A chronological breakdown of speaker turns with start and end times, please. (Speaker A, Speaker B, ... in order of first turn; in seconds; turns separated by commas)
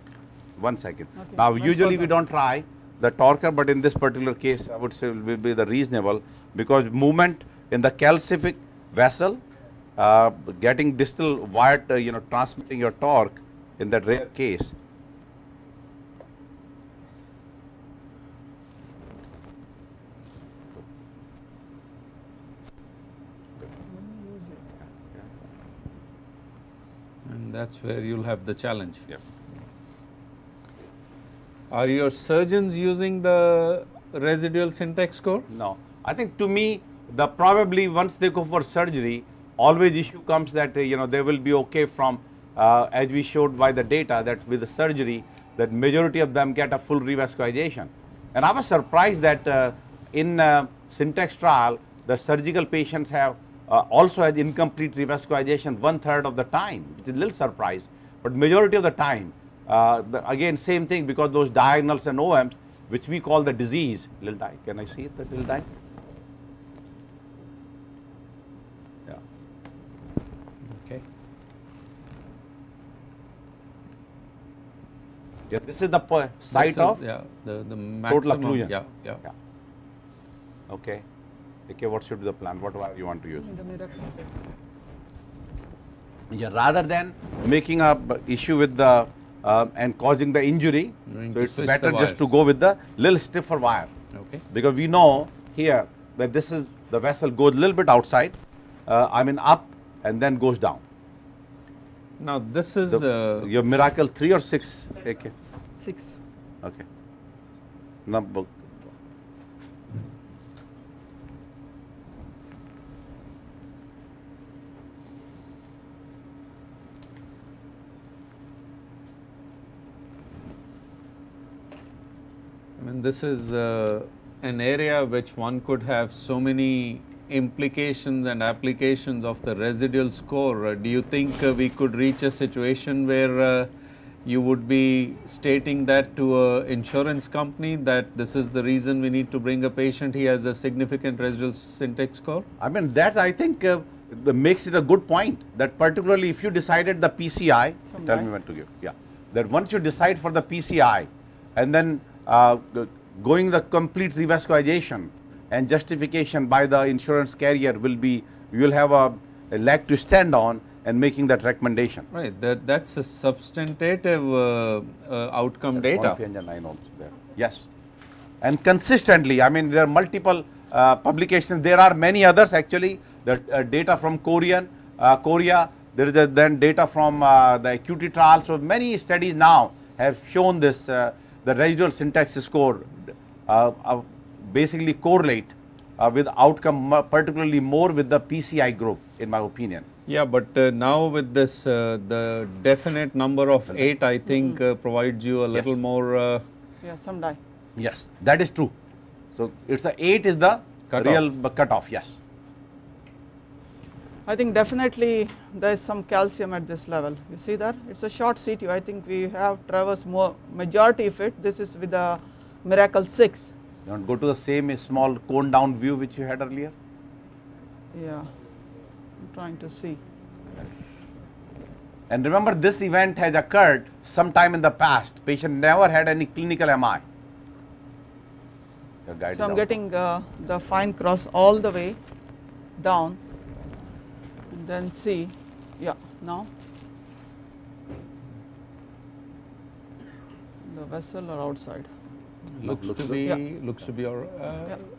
Speaker A: 0.6-9.4, Speaker B: 1.2-2.1, Speaker A: 10.0-14.7, Speaker B: 23.9-24.7, Speaker C: 27.2-29.0, Speaker C: 31.7-35.5, Speaker A: 35.5-65.7, Speaker C: 70.7-71.0, Speaker A: 75.5-77.0, Speaker C: 76.5-79.2, Speaker A: 78.1-78.7, Speaker A: 80.7-81.0, Speaker A: 81.7-83.5, Speaker B: 83.3-84.1, Speaker A: 86.3-93.9, Speaker C: 91.1-92.2, Speaker C: 94.1-94.4, Speaker A: 94.5-98.3, Speaker A: 98.9-100.8, Speaker C: 102.2-103.5, Speaker A: 102.9-105.3, Speaker B: 105.8-106.2, Speaker A: 108.0-108.7, Speaker C: 122.8-133.7, Speaker C: 134.2-142.4, Speaker A: 142.6-162.1, Speaker B: 147.9-148.3, Speaker C: 162.1-166.2, Speaker A: 165.7-167.7, Speaker A: 168.4-189.8, Speaker C: 190.1-196.4, Speaker B: 196.8-197.4, Speaker A: 197.8-198.7, Speaker A: 199.3-202.2, Speaker C: 200.9-201.2, Speaker B: 204.3-213.5, Speaker A: 213.8-216.7, Speaker B: 217.9-218.3, Speaker B: 219.2-220.0, Speaker A: 222.1-227.0, Speaker A: 229.1-229.7, Speaker B: 229.3-232.0, Speaker B: 232.8-233.2, Speaker B: 234.5-236.5, Speaker B: 240.6-241.9, Speaker C: 242.6-244.8, Speaker A: 242.6-243.3